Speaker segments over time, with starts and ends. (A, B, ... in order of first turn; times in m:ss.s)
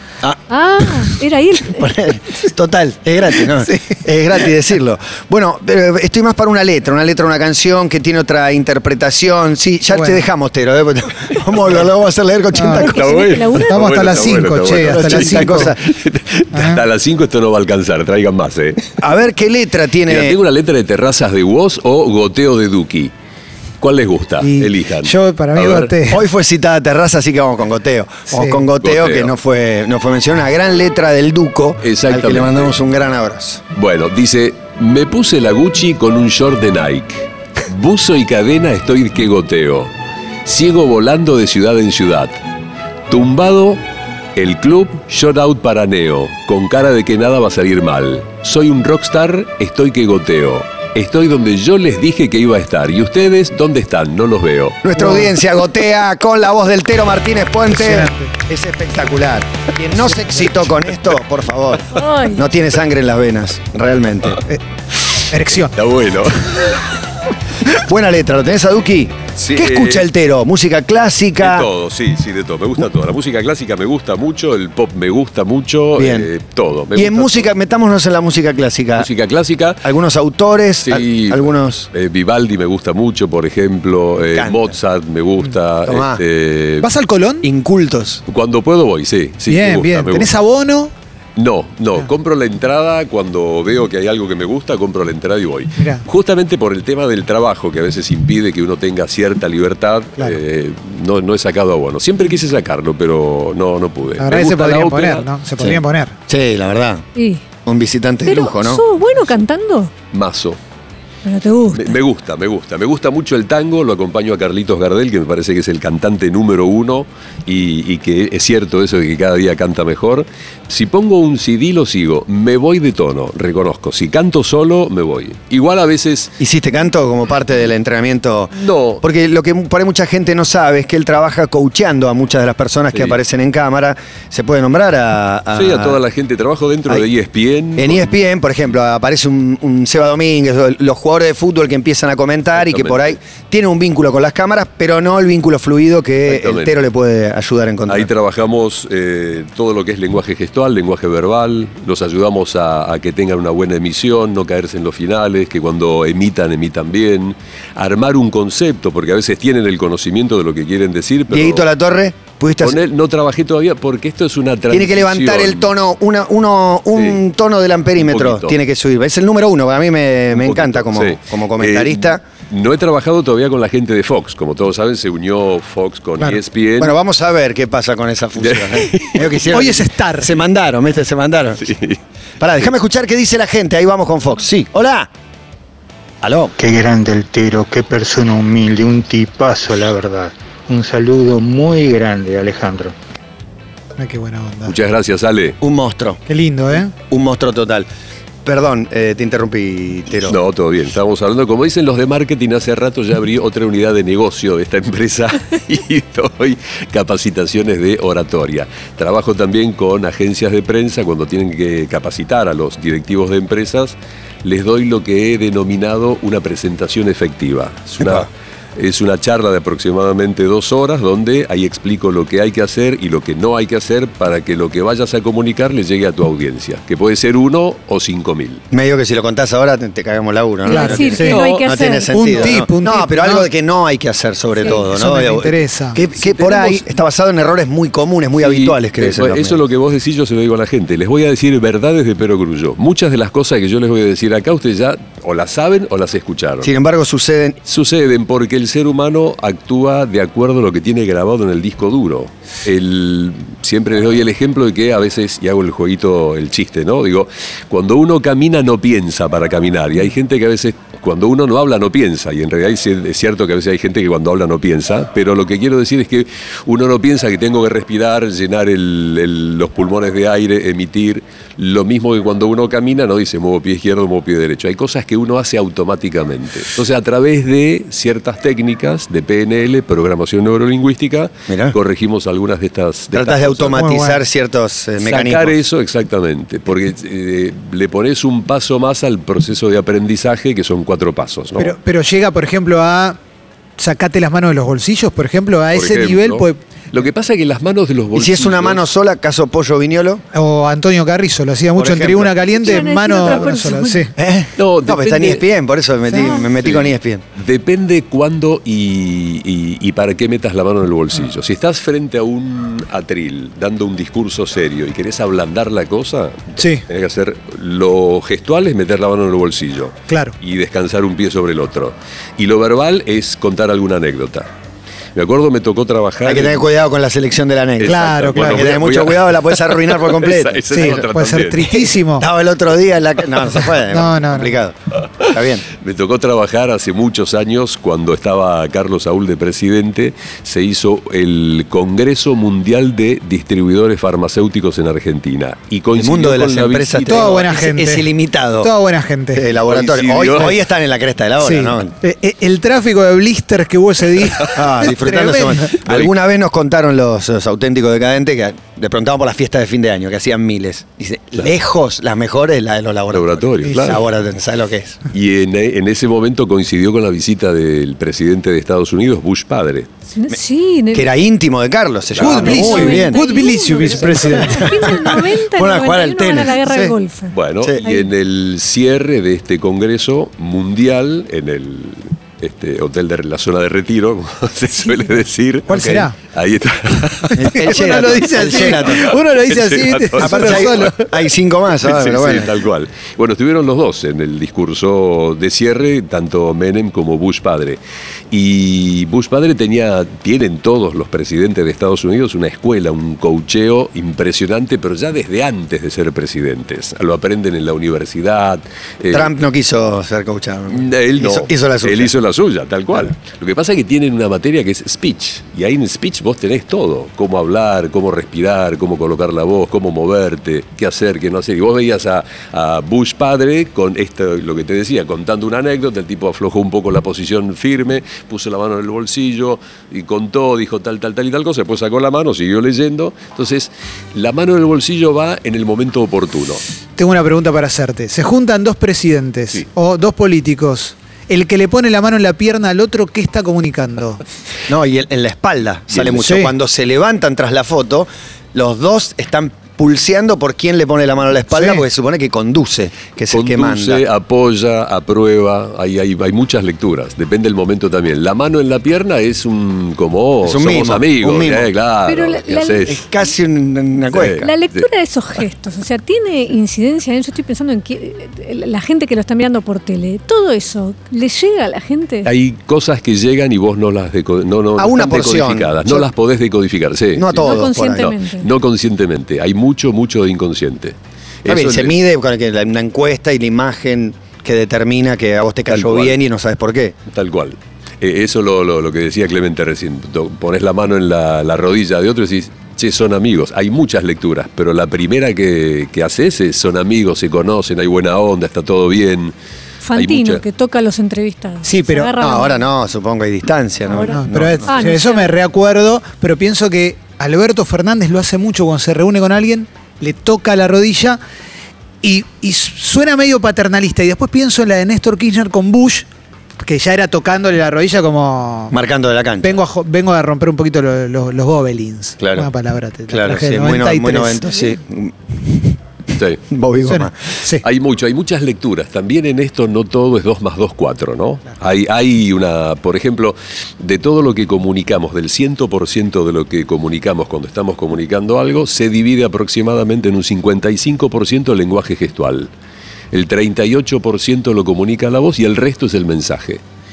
0:00.2-0:01.1 A
0:00.5-0:02.0 B
0:01.7-0:13.4 A
0:03.7-0:04.0 C
0:09.9-0:10.2 C
0:12.5-0:12.8 C
0:12.7-0:14.1 B
0:12.8-0:18.9 D
0:13.7-0:15.7 C
0:14.7-0:15.9 A
0:16.5-0:16.8 C
0:19.0-0:20.4 A
0:20.1-0:23.1 D
0:23.8-0:25.9 D
0:24.4-0:26.2 C
0:26.1-0:33.6 A
0:28.3-0:28.6 C
0:28.8-0:29.3 D
0:31.8-0:32.7 D
0:33.7-0:39.9 D
0:40.4-0:42.3 D
0:43.1-0:43.8 D
0:44.4-0:54.8 D
0:54.8-1:04.4 A
0:55.0-0:55.3 C
0:57.7-0:58.3 C
1:01.9-1:02.4 B
1:05.3-1:05.7 C
1:05.7-1:06.9 D
1:07.8-1:11.7 A
1:09.4-1:10.0 D
1:11.4-1:17.5 D
1:15.9-1:16.3 A
1:16.9-1:19.1 A
1:19.0-1:19.8 D
1:19.8-1:21.9 A
1:20.8-1:26.9 D
1:24.3-1:24.7 A
1:25.8-1:26.2 A
1:26.8-1:27.5 C
1:27.4-1:28.2 A
1:28.3-1:30.3 D
1:29.5-1:30.9 C
1:31.4-1:45.3 D
1:35.8-1:36.0 C
1:44.2-1:46.2 C
1:45.6-1:47.0 A
1:47.2-1:47.4 B
1:47.6-1:48.8 A
1:48.2-1:49.9 B
1:50.1-1:50.6 D
1:51.2-1:52.0 B
1:51.7-2:06.3 D
2:06.4-2:16.0 A
2:08.5-2:09.0 D
2:12.9-2:13.2 D
2:15.5-2:18.2 D
2:17.8-2:28.1 A
2:22.6-2:23.2 D
2:26.3-2:26.7 D
2:27.9-2:41.7 D
2:41.3-2:42.8 A
2:42.6-2:45.7 D
2:44.7-2:52.2 A
2:46.9-2:47.2 D
2:48.0-2:48.5 D
2:50.3-2:56.9 D
2:56.8-3:01.7 A
2:58.4-2:59.4 D
2:59.5-3:00.3 C
3:01.6-3:02.0 D
3:02.4-3:05.1 A
3:06.2-3:06.5 A
3:06.6-3:12.9 E
3:14.0-3:14.7 C
3:14.7-3:15.6 D
3:15.6-3:16.2 A
3:16.3-3:16.9 C
3:16.9-3:17.9 A
3:18.4-3:20.4 A
3:20.2-3:48.6 D
3:48.7-3:59.6 A
3:50.6-3:52.6 B
3:50.7-3:51.4 C
3:51.3-3:51.6 D
3:52.1-3:53.5 C
3:54.7-3:56.0 C
3:56.1-3:56.8 D
3:58.4-4:06.7 D
4:06.6-4:07.6 A
4:07.6-4:43.8 D
4:41.5-4:41.8 A
4:43.1-4:45.6 A
4:43.8-4:44.2 C
4:45.0-4:51.7 D
4:51.6-4:53.2 C
4:53.8-4:56.6 C
4:55.7-4:58.8 D
4:58.1-5:00.2 A
5:00.3-5:04.1 C
5:01.8-5:03.4 A
5:02.5-5:04.1 B
5:04.2-5:07.2 A
5:04.6-5:05.4 D
5:06.1-5:06.4 B
5:06.6-5:24.5 D
5:16.6-5:16.8 C
5:20.1-5:20.3 C
5:25.2-5:26.6 D
5:26.2-5:31.0 A
5:27.8-5:31.9 D
5:27.8-5:28.7 C
5:30.7-5:32.3 C
5:32.1-5:35.7 A
5:33.9-5:34.5 C
5:35.7-5:47.4 D
5:45.9-5:48.7 A
5:47.1-5:48.1 C
5:48.6-5:49.4 C
5:49.3-5:51.9 A
5:49.6-5:50.6 D
5:51.4-5:55.7 C
5:54.5-6:05.0 A
5:55.8-5:56.1 D
6:03.1-6:04.0 D
6:03.6-6:03.9 C
6:05.1-6:09.9 D
6:10.1-6:11.1 B
6:10.9-6:13.2 A
6:12.2-6:14.9 C
6:12.2-6:18.1 B
6:13.8-6:16.9 A
6:17.3-6:27.7 D
6:25.7-6:26.1 C
6:27.3-6:31.0 C
6:27.4-6:29.1 A
6:28.6-6:31.0 D
6:30.2-6:32.5 A
6:31.8-6:37.8 D
6:38.3-6:49.3 D
6:49.1-6:52.1 A
6:50.7-7:16.6 D
7:17.0-7:24.2 C
7:24.7-7:34.0 A
7:26.2-7:26.5 C
7:31.5-7:31.8 C
7:33.3-7:43.0 D
7:40.4-7:41.7 A
7:42.0-7:43.0 B
7:42.9-7:44.5 A
7:44.1-7:44.8 D
7:44.4-7:52.3 B
7:52.2-7:57.5 D
7:54.8-7:56.1 A
7:57.1-7:58.1 A
7:57.4-7:58.5 B
7:58.4-8:02.0 D
8:01.4-8:07.0 A
8:05.7-8:06.2 D
8:07.1-8:19.3 D
8:19.8-8:22.6 B
8:19.9-8:20.4 D
8:21.6-8:22.1 C
8:22.2-8:24.7 A
8:23.9-8:25.3 B
8:24.1-8:31.2 C
8:32.0-8:36.0 C
8:36.6-8:38.7 C
8:38.7-8:39.6 A
8:39.4-8:44.6 C
8:42.2-8:42.5 A
8:43.1-8:45.7 A
8:46.2-8:46.4 D
8:46.5-8:47.3 A
8:46.9-8:47.6 C
8:47.6-9:02.5 D
9:03.1-9:06.6 D